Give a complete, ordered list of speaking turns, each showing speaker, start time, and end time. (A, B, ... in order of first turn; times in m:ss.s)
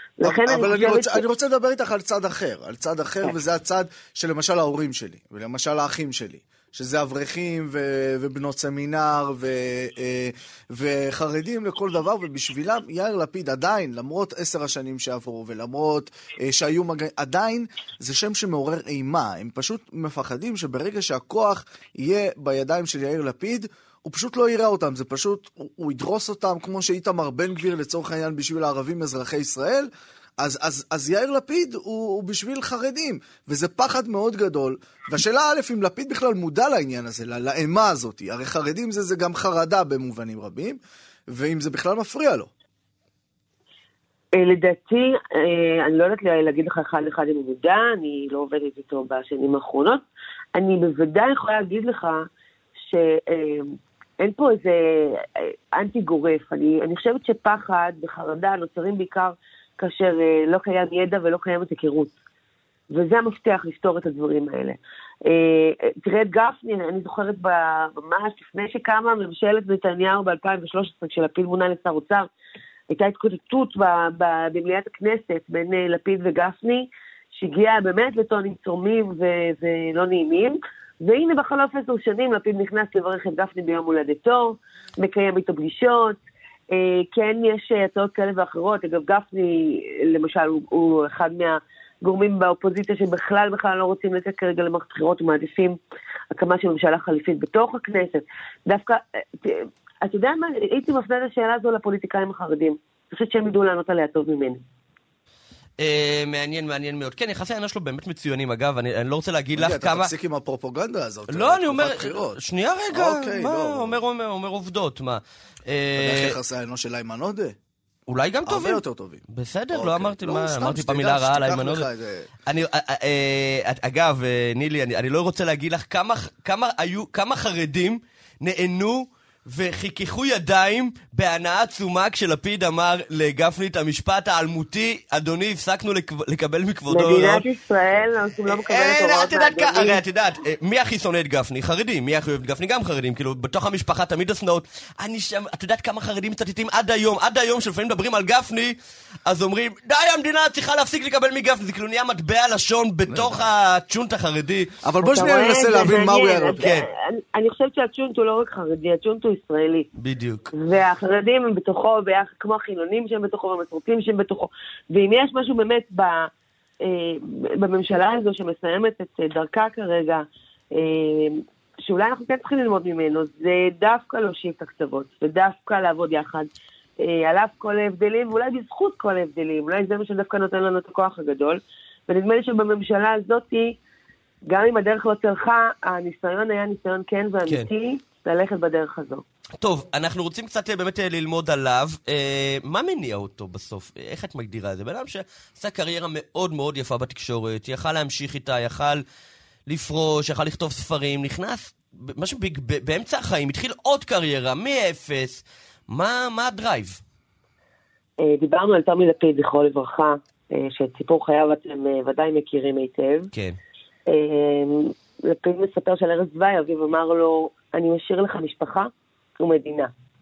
0:00.2-0:01.2 A
0:00.2-0:42.5 B
0:44.4-0:50.0 A
0:50.6-0:52.3 A
0:52.8-1:02.1 A
1:02.9-1:12.3 A
1:12.9-1:26.2 A
1:26.7-1:35.8 A
1:36.3-1:44.6 A
1:45.8-1:50.1 C
1:49.5-1:54.0 B
1:51.3-1:56.4 C
1:56.0-1:57.6 B
1:58.1-2:01.9 C
1:58.4-2:02.3 B
2:02.5-2:17.4 C
2:16.9-2:20.0 A
2:18.5-2:34.8 C
2:33.1-2:33.4 B
2:34.8-2:36.7 B
2:35.0-2:39.9 A
2:36.6-2:36.8 C
2:40.0-2:40.5 C
2:40.6-2:46.3 A
2:46.8-3:03.8 A
3:04.4-3:09.2 A
3:09.6-3:19.0 C
3:19.7-3:27.0 C
3:28.2-3:33.3 A
3:33.3-3:33.6 C
3:34.1-3:39.9 A